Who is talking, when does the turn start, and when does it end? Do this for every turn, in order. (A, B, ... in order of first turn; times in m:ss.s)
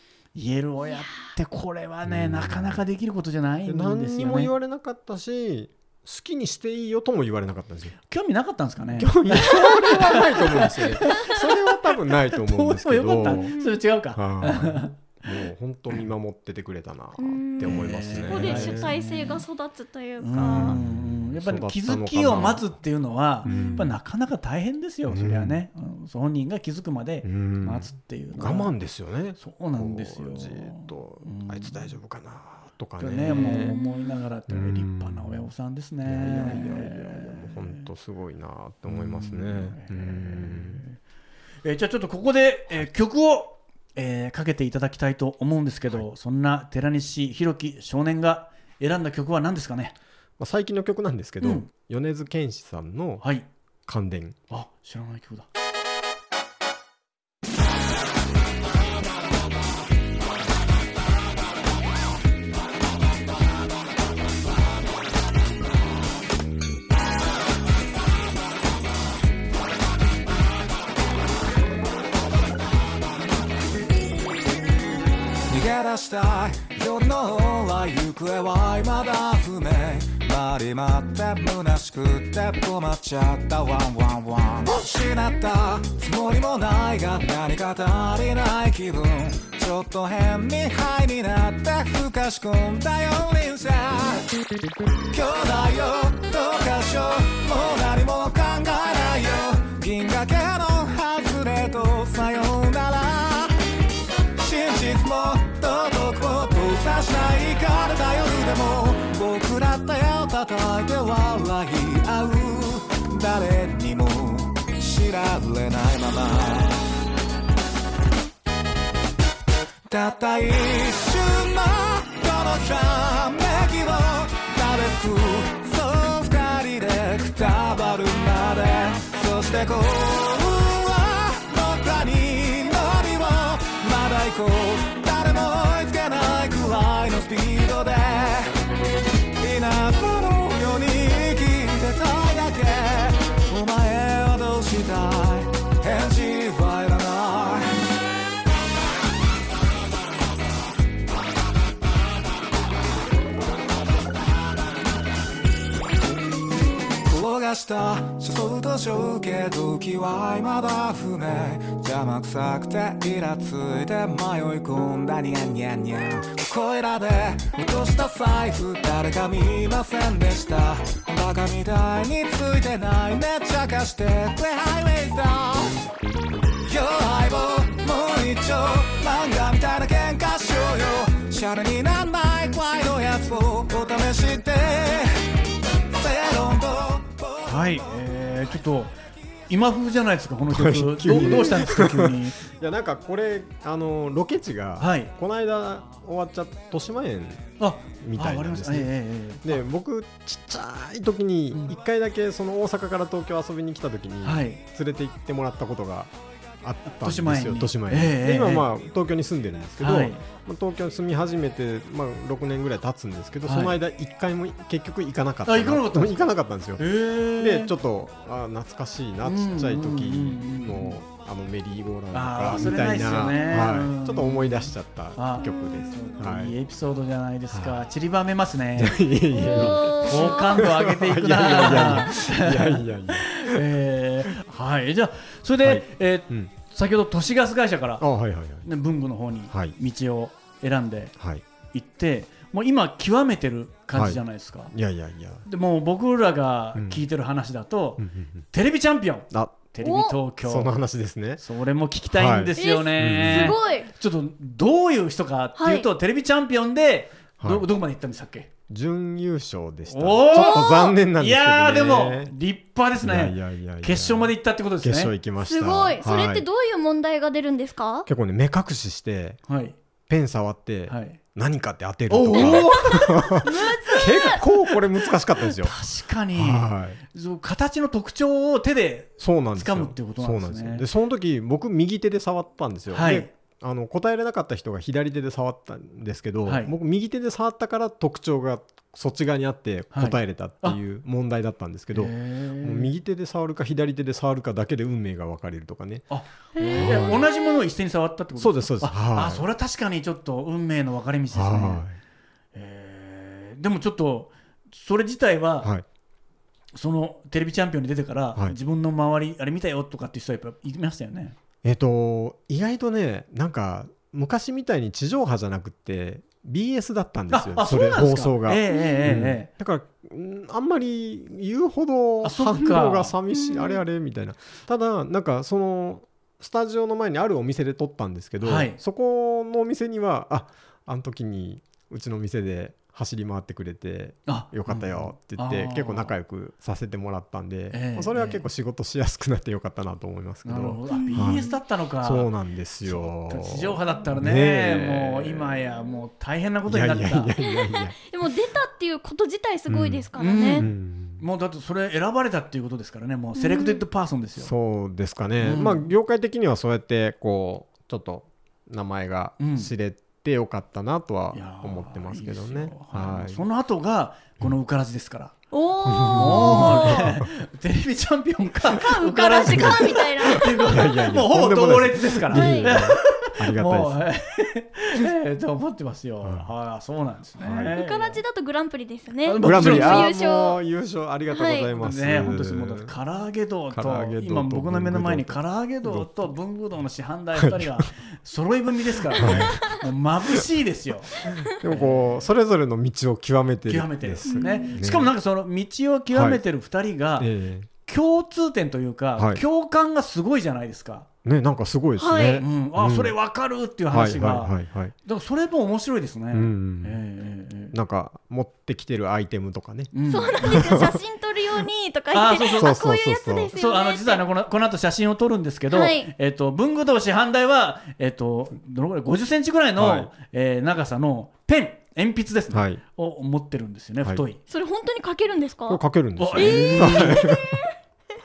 0:00.3-0:04.5 A
0:02.0-0:02.8 B
0:03.6-0:08.0 B
0:08.1-0:15.0 A
0:09.0-0:13.5 B
0:09.5-0:10.2 C
0:13.3-0:13.8 C
0:14.1-0:18.9 B
0:17.2-0:20.8 C
0:17.6-0:19.4 A
0:20.2-0:28.7 A
0:20.3-0:22.7 B
0:23.4-0:23.9 B
0:23.4-0:23.9 C
0:25.1-0:25.6 B
0:27.2-0:33.8 B
0:29.4-0:31.9 A
0:33.0-0:37.8 A
0:33.6-0:33.8 C
0:34.5-0:35.5 B
0:36.0-0:40.8 B
0:38.9-0:41.0 A
0:41.6-0:50.0 A
0:50.4-0:53.2 B
0:51.4-0:51.7 A
0:53.2-0:53.4 A
0:53.9-0:54.4 B
0:54.5-0:55.5 A
1:15.5-1:34.3 D
1:35.1-1:43.6 D
1:44.3-1:56.8 D
1:59.9-2:18.6 D
2:19.4-2:27.8 D
2:37.0-2:55.8 D
2:56.6-3:05.2 D
3:05.9-3:07.9 D
3:07.4-3:08.9 A
3:09.5-3:12.4 A
3:10.5-3:18.9 B
3:14.8-3:15.1 A
3:17.6-3:19.6 A
3:19.4-3:46.6 B
3:24.2-3:24.6 A
3:27.0-3:28.7 A
3:29.8-3:30.2 A
3:33.4-3:33.8 A
3:35.4-3:37.7 A
3:39.2-3:41.0 A
3:42.1-3:58.0 A
3:45.4-3:46.2 C
3:47.5-3:47.8 B
3:48.8-3:53.6 B
3:49.3-3:50.6 C
3:55.6-3:56.5 B
3:58.0-3:58.7 B
3:58.6-4:01.1 A
4:01.2-4:01.4 B
4:01.7-4:04.7 A
4:03.9-4:05.4 B
4:05.4-4:10.7 A
4:06.7-4:07.0 B
4:08.0-4:08.4 B
4:09.3-4:09.7 B
4:09.8-4:10.2 C
4:10.4-4:11.4 B
4:11.4-4:18.5 A
4:12.1-4:13.6 B
4:12.6-4:13.9 C
4:15.6-4:15.9 C
4:17.4-4:17.6 B
4:18.7-4:22.3 B
4:19.9-4:25.1 A
4:20.3-4:20.9 C
4:23.0-4:26.4 B
4:25.4-4:28.1 C
4:28.0-4:29.4 B
4:29.5-4:29.8 A
4:30.1-4:35.7 B
4:30.9-4:31.2 A
4:32.1-4:34.8 A
4:32.3-4:34.4 C
4:35.4-4:40.8 A
4:36.3-4:37.0 B
4:39.2-4:56.0 B
4:42.9-4:43.3 A
4:46.4-4:46.7 A
4:49.9-4:50.8 A
4:51.9-4:52.9 A
4:56.1-5:01.8 A
4:56.6-4:57.6 C
4:56.7-4:57.3 B
4:58.4-4:59.4 B
5:01.3-5:02.0 B
5:02.5-5:05.7 A
5:06.7-5:11.4 A
5:11.6-5:45.7 B
5:17.3-5:19.5 A
5:18.7-5:19.2 C
5:22.2-5:23.2 A
5:23.3-5:23.8 C
5:28.4-5:28.8 A
5:34.3-5:36.1 A
5:37.7-5:38.4 A
5:40.4-5:42.3 A
5:40.9-5:41.5 C
5:42.8-5:47.3 A
5:46.6-5:48.1 B
5:47.4-5:50.7 C
5:49.7-5:51.2 B
5:50.2-5:54.5 A
5:53.3-5:53.8 C
5:54.4-6:03.4 B
5:55.4-5:55.9 A
5:59.4-5:59.7 A
6:01.3-6:05.4 A
6:05.5-6:07.1 C
6:05.8-6:07.3 B
6:06.0-6:18.2 A
6:08.7-6:10.8 C
6:09.4-6:14.0 B
6:12.3-6:12.8 C
6:16.2-6:16.5 B
6:17.4-6:17.8 B
6:17.6-6:20.6 C
6:19.2-6:20.1 A
6:19.4-6:22.9 B
6:21.3-6:21.7 C
6:21.8-6:32.2 A
6:23.7-6:26.3 B
6:27.4-6:27.9 B
6:29.1-6:29.8 B
6:29.2-6:29.7 C
6:31.2-6:35.1 B
6:33.7-6:37.3 A
6:34.2-6:34.8 C
6:36.1-6:36.4 B
6:37.2-6:37.7 B
6:37.8-6:41.1 A
6:39.2-6:39.4 B
6:41.2-6:43.1 B
6:42.0-6:42.4 C
6:42.4-6:47.7 A
6:43.9-6:44.9 B
6:46.3-6:47.0 B
6:47.7-6:51.0 B
6:49.9-6:50.8 A
6:50.1-6:54.2 C
6:52.1-6:52.8 A
6:52.5-6:53.5 B
6:53.5-7:04.4 A
6:55.7-6:56.1 C
6:59.8-7:00.1 B
7:02.5-7:02.8 B
7:04.5-7:05.8 C
7:05.7-7:07.7 B
7:06.2-7:07.3 A
7:06.3-7:07.7 C